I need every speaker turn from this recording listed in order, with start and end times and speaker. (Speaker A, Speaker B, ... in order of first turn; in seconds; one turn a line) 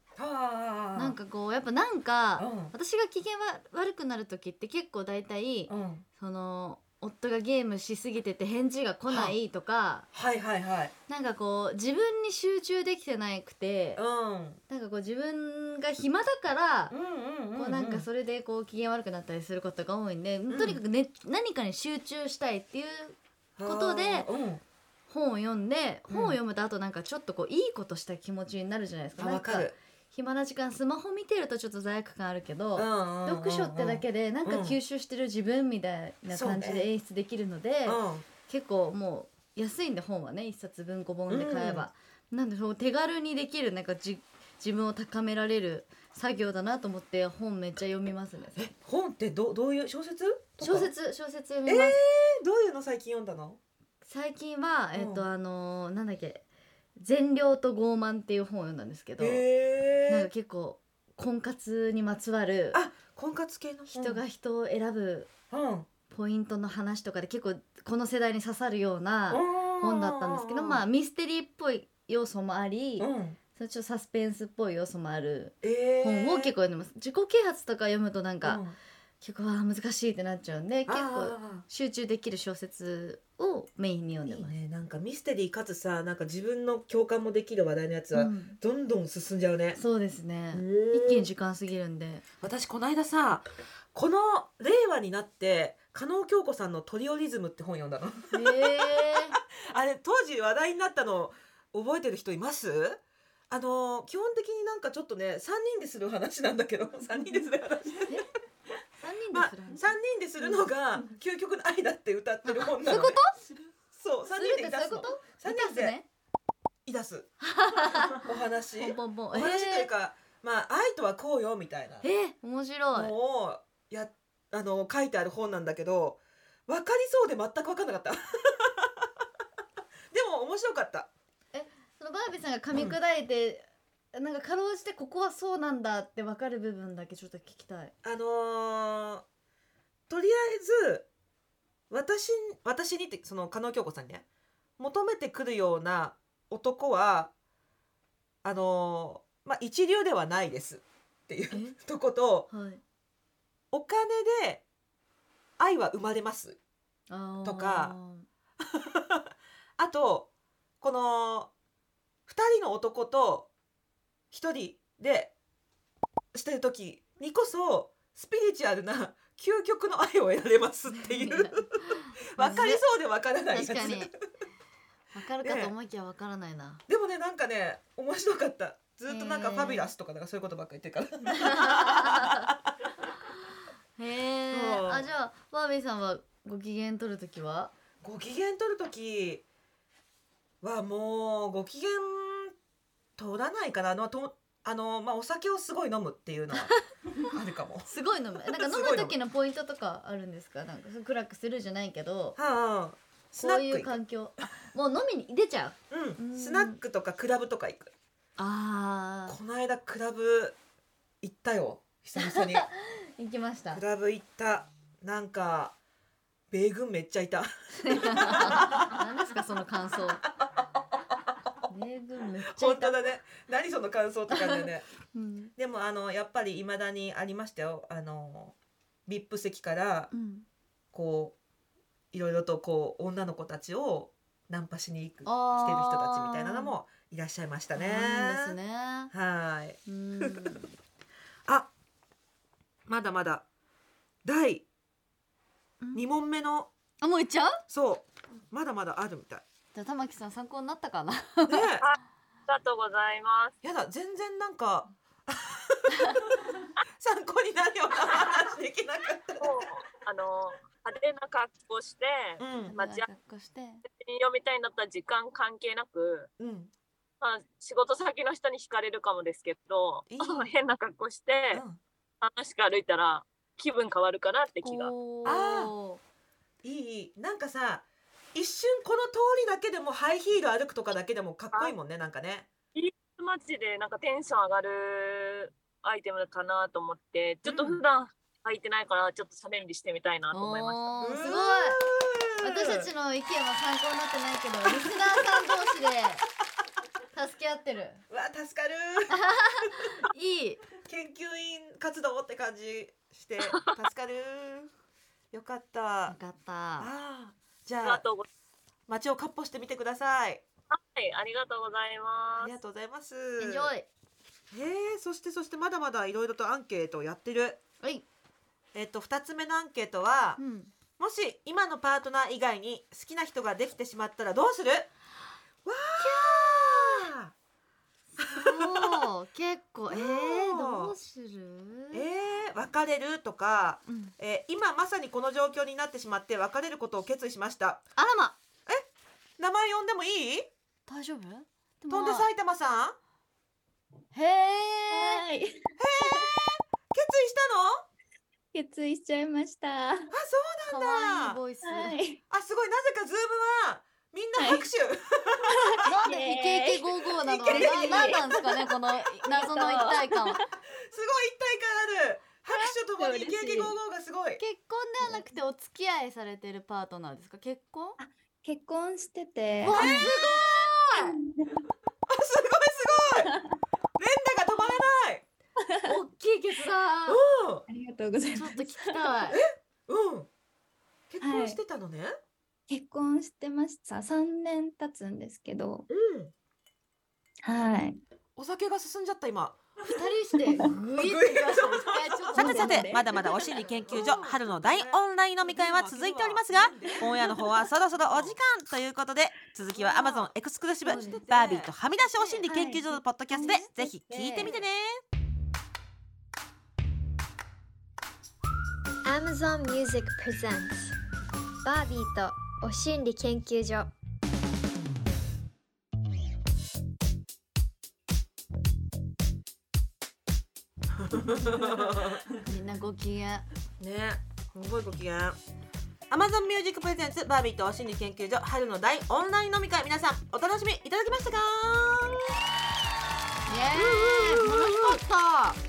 Speaker A: 0.2-1.2
Speaker B: 0.9-10.1
Speaker A: 2.4-2.7
Speaker A: 5.7-6.0
Speaker A: 9.1-9.4
Speaker A: 10.1-10.9
Speaker B: 11.1-14.0
Speaker A: 14.0-14.6
Speaker B: 14.7-16.9
Speaker A: 16.9-18.1
Speaker B: 17.5-24.3
Speaker A: 20.5-20.8
Speaker A: 23.6-24.6
Speaker B: 25.1-48.7
Speaker A: 26.1-26.4
Speaker A: 29.2-29.8
Speaker A: 32.8-34.8
Speaker A: 36.3-36.9
Speaker A: 37.9-38.2
Speaker A: 41.3-41.9
Speaker A: 48.6-50.9
Speaker B: 50.6-52.0
Speaker A: 51.7-53.6
Speaker B: 54.0-56.4
Speaker A: 54.9-55.3
Speaker B: 57.0-59.4
Speaker A: 59.2-60.3
Speaker B: 60.1-62.8
Speaker A: 62.7-64.2
Speaker B: 63.9-65.3
Speaker A: 65.5-65.9
Speaker B: 66.1-78.6
Speaker A: 69.3-70.8
Speaker A: 73.0-73.4
Speaker A: 75.6-76.5
Speaker A: 78.4-78.8
Speaker B: 79.2-84.5
Speaker A: 80.9-81.7
Speaker A: 84.3-89.8
Speaker B: 88.1-88.6
Speaker B: 89.8-92.2
Speaker A: 90.5-91.3
Speaker A: 92.4-98.8
Speaker B: 98.3-99.4
Speaker A: 99.5-108.2
Speaker B: 109.0-110.6
Speaker A: 109.3-113.2
Speaker B: 112.5-113.5
Speaker A: 113.9-116.0
Speaker B: 114.3-116.1
Speaker A: 116.9-117.3
Speaker B: 117.4-118.3
Speaker A: 117.8-122.1
Speaker B: 118.8-119.9
Speaker B: 122.0-123.1
Speaker A: 122.9-129.1
Speaker A: 130.1-131.1
Speaker B: 131.5-137.9
Speaker A: 138.0-139.2
Speaker A: 140.1-141.1
Speaker A: 141.9-144.2
Speaker A: 144.8-147.3
Speaker A: 148.4-152.5
Speaker B: 152.5-152.8
Speaker A: 153.7-154.6
Speaker A: 155.6-156.6
Speaker B: 157.1-158.3
Speaker A: 157.4-158.0
Speaker A: 158.6-160.3
Speaker A: 160.8-161.5
Speaker A: 162.3-163.5
Speaker A: 164.3-165.3
Speaker A: 166.3-174.1
Speaker B: 170.9-172.8
Speaker B: 173.5-174.1
Speaker B: 175.1-176.8
Speaker A: 175.4-175.7
Speaker A: 176.9-182.6
Speaker B: 179.1-179.9
Speaker B: 181.3-182.5
Speaker B: 184.0-187.7
Speaker A: 184.5-185.1
Speaker A: 188.0-189.4
Speaker A: 190.6-192.6
Speaker A: 193.2-197.9
Speaker B: 197.9-202.4
Speaker A: 198.5-199.2
Speaker A: 202.4-204.0
Speaker B: 203.4-206.8
Speaker A: 205.9-207.9
Speaker B: 208.4-209.4
Speaker A: 209.3-210.6
Speaker A: 211.2-212.7
Speaker B: 212.2-213.8
Speaker A: 213.7-215.8
Speaker A: 216.5-219.0
Speaker B: 217.8-220.2
Speaker A: 220.4-220.7
Speaker B: 221.7-223.1
Speaker A: 222.4-224.9
Speaker B: 224.3-225.5
Speaker A: 225.6-228.6
Speaker A: 229.1-230.1
Speaker B: 230.1-230.5
Speaker A: 230.9-231.4
Speaker A: 232.1-238.6
Speaker B: 235.3-236.8
Speaker B: 237.8-239.1
Speaker A: 239.1-240.6
Speaker B: 239.9-240.7
Speaker A: 242.9-243.4
Speaker A: 244.2-244.7
Speaker A: 245.9-246.7
Speaker B: 247.0-247.6
Speaker A: 247.7-249.4
Speaker B: 249.7-251.8
Speaker A: 251.5-251.9
Speaker C: 251.8-253.5
Speaker A: 253.6-259.7
Speaker C: 259.4-263.1
Speaker A: 262.4-262.8
Speaker B: 262.7-263.8
Speaker C: 263.9-266.3
Speaker A: 266.4-266.7
Speaker C: 267.2-271.6
Speaker A: 270.1-270.5
Speaker A: 271.5-271.8
Speaker C: 272.2-274.9
Speaker B: 274.6-276.0
Speaker A: 275.2-275.7
Speaker A: 276.6-277.8
Speaker A: 278.4-282.5
Speaker C: 282.8-291.1
Speaker A: 287.4-287.8
Speaker B: 290.3-291.8
Speaker A: 291.0-292.9
Speaker B: 292.4-296.2
Speaker A: 294.7-295.2
Speaker B: 297.1-298.0
Speaker A: 298.1-299.7
Speaker B: 299.1-300.6
Speaker A: 300.9-304.7
Speaker A: 305.3-306.2
Speaker B: 306.1-306.9
Speaker A: 306.8-308.0
Speaker C: 307.8-308.3
Speaker A: 308.9-310.4
Speaker C: 310.7-312.6
Speaker A: 312.4-313.7
Speaker B: 313.4-313.9
Speaker A: 314.5-317.6
Speaker A: 318.7-320.4
Speaker B: 320.4-320.7
Speaker A: 321.0-324.9
Speaker A: 325.6-327.3
Speaker B: 326.0-327.1
Speaker B: 328.1-332.0
Speaker A: 328.2-329.1
Speaker A: 329.9-330.9
Speaker A: 331.9-337.8
Speaker B: 333.9-334.1
Speaker B: 338.0-338.4
Speaker A: 339.4-340.5
Speaker B: 340.9-342.3
Speaker A: 341.9-343.0
Speaker B: 344.1-345.2
Speaker D: 344.9-346.3
Speaker A: 345.8-347.9
Speaker D: 348.5-350.1
Speaker A: 350.1-351.4
Speaker B: 350.7-352.0
Speaker D: 351.6-352.2
Speaker A: 352.3-355.8
Speaker D: 354.4-354.7
Speaker D: 355.5-358.6
Speaker B: 355.8-360.4
Speaker A: 357.2-358.2
Speaker D: 359.2-360.5
Speaker A: 360.9-364.4
Speaker D: 362.5-363.8
Speaker B: 364.4-368.0
Speaker D: 368.0-370.1
Speaker B: 369.6-371.2
Speaker A: 369.7-370.4
Speaker D: 371.0-371.7
Speaker A: 372.1-373.3
Speaker D: 373.1-373.4
Speaker A: 374.0-375.3
Speaker B: 375.9-377.2
Speaker A: 377.1-377.7
Speaker D: 377.7-379.1
Speaker B: 378.3-379.4
Speaker A: 379.3-380.3
Speaker A: 381.1-382.1
Speaker D: 381.2-381.6
Speaker D: 382.7-385.9
Speaker A: 385.9-386.3
Speaker D: 387.4-388.0
Speaker A: 388.4-389.6
Speaker B: 389.8-393.1
Speaker A: 391.0-405.0
Speaker D: 392.4-393.2
Speaker B: 395.8-397.3
Speaker B: 399.8-400.3
Speaker B: 400.9-404.6
Speaker E: 409.0-411.0
Speaker E: 411.6-413.9
Speaker A: 420.9-422.4
Speaker B: 422.3-423.5
Speaker A: 423.8-425.4
Speaker A: 426.1-432.5
Speaker B: 433.5-435.6
Speaker A: 433.8-435.0